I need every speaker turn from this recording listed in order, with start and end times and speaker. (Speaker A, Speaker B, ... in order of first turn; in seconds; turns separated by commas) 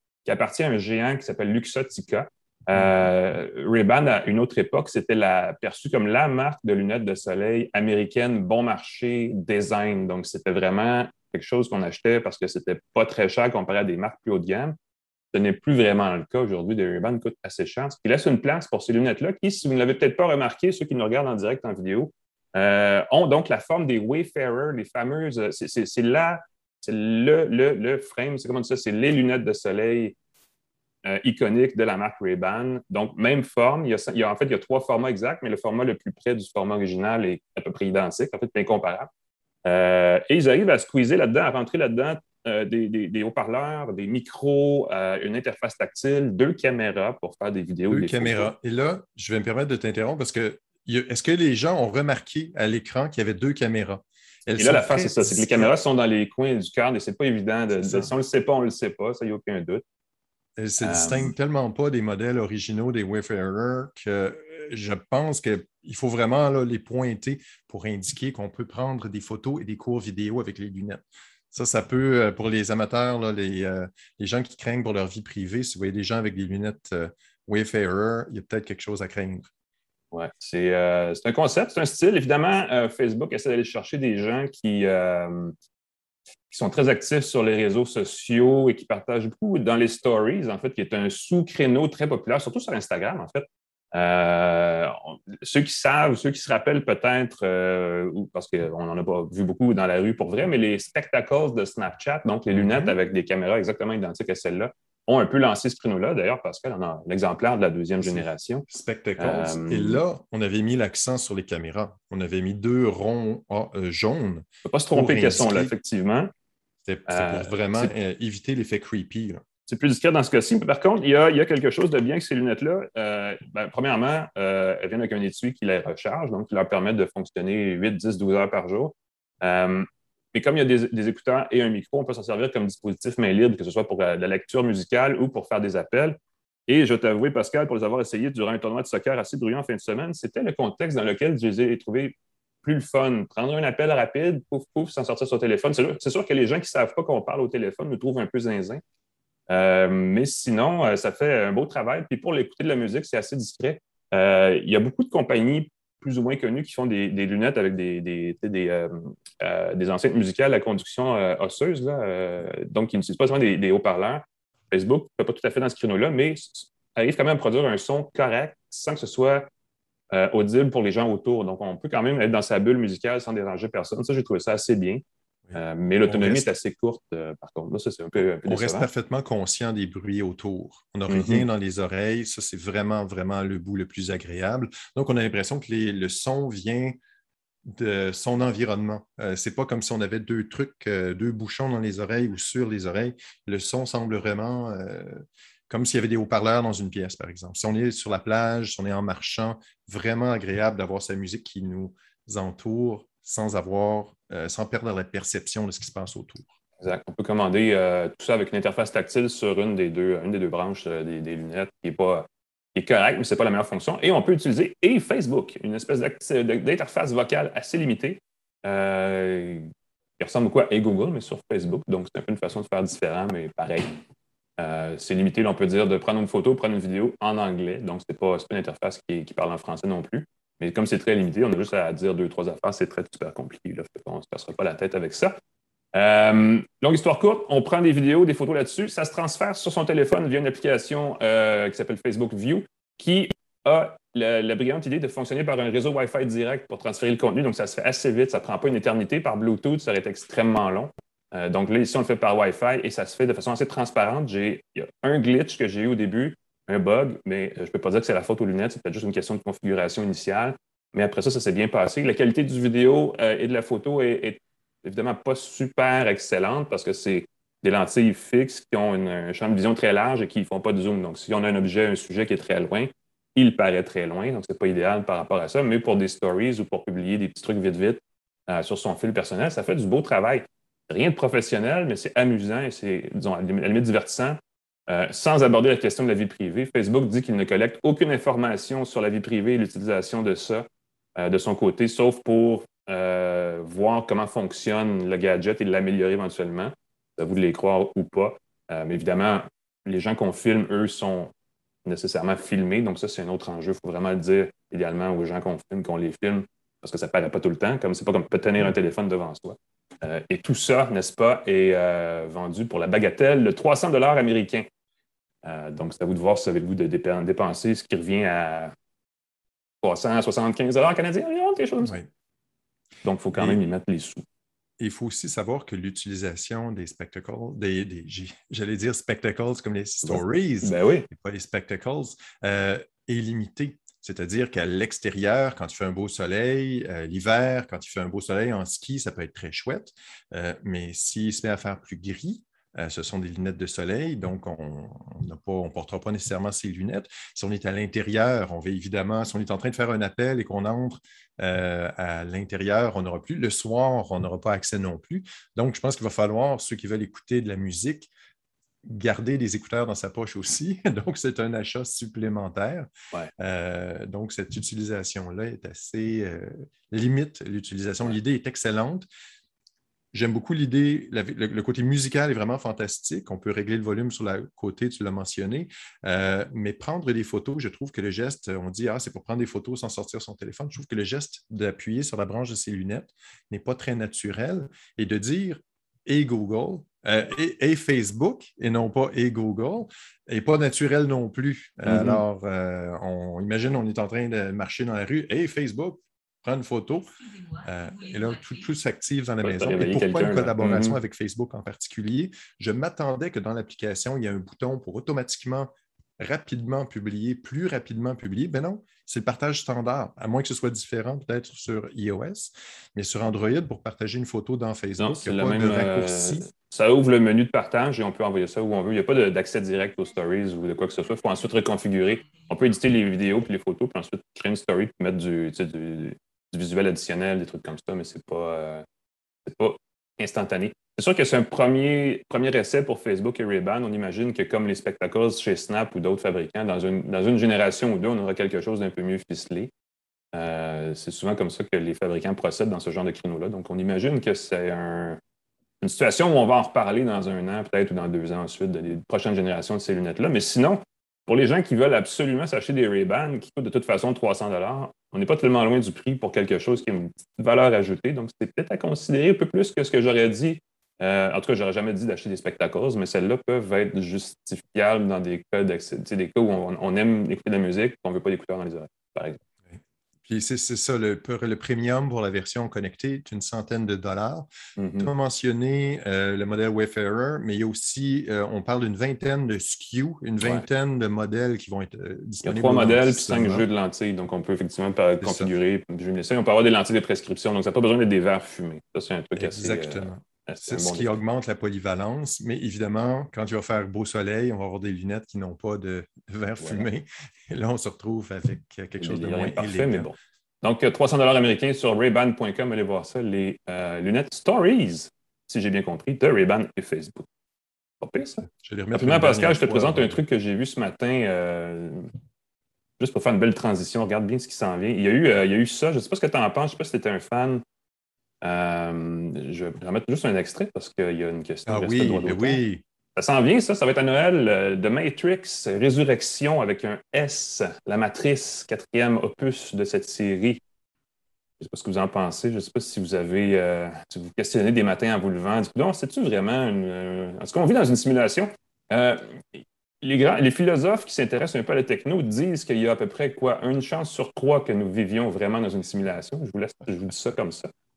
Speaker A: 0.2-14.8, Speaker B: 2.7-3.0, Speaker A: 15.3-30.1, Speaker A: 31.1-39.1, Speaker A: 39.6-48.5, Speaker B: 47.9-55.7, Speaker A: 54.6-59.8, Speaker B: 57.7-58.1, Speaker B: 60.6-79.5, Speaker A: 60.8-61.3, Speaker A: 80.1-85.5, Speaker A: 86.5-108.7, Speaker B: 102.5-103.0, Speaker B: 108.0-115.7, Speaker A: 109.2-110.0, Speaker A: 114.6-116.3, Speaker B: 116.8-119.4, Speaker A: 117.1-117.9, Speaker A: 119.7-148.8, Speaker A: 149.5-169.4, Speaker A: 170.1-175.0, Speaker B: 175.5-176.5, Speaker A: 175.5-178.9, Speaker B: 178.5-187.0, Speaker A: 181.1-181.4, Speaker B: 187.6-206.5, Speaker A: 206.8-223.9, Speaker A: 224.6-235.3, Speaker A: 235.9-290.6, Speaker A: 291.2-301.3, Speaker A: 301.8-314.6, Speaker A: 315.4-318.7, Speaker A: 319.8-322.0, Speaker B: 321.8-322.1, Speaker A: 323.0-324.2, Speaker B: 323.3-323.6, Speaker B: 324.8-358.1, Speaker A: 330.0-331.1, Speaker B: 358.8-369.1, Speaker B: 370.1-416.4, Speaker A: 391.9-392.2, Speaker A: 399.4-400.9, Speaker A: 415.0-428.8, Speaker A: 429.4-439.7, Speaker A: 440.3-445.2, Speaker A: 445.8-469.4, Speaker B: 469.7-474.5, Speaker A: 474.8-475.1, Speaker B: 475.0-483.6, Speaker A: 482.4-491.1, Speaker B: 485.2-485.5, Speaker B: 489.4-500.1, Speaker A: 496.6-496.9, Speaker A: 499.0-507.3, Speaker A: 508.0-512.1, Speaker B: 508.4-510.2, Speaker A: 513.0-517.6, Speaker A: 518.4-522.6, Speaker B: 521.7-522.8, Speaker A: 523.1-530.6, Speaker A: 531.6-547.7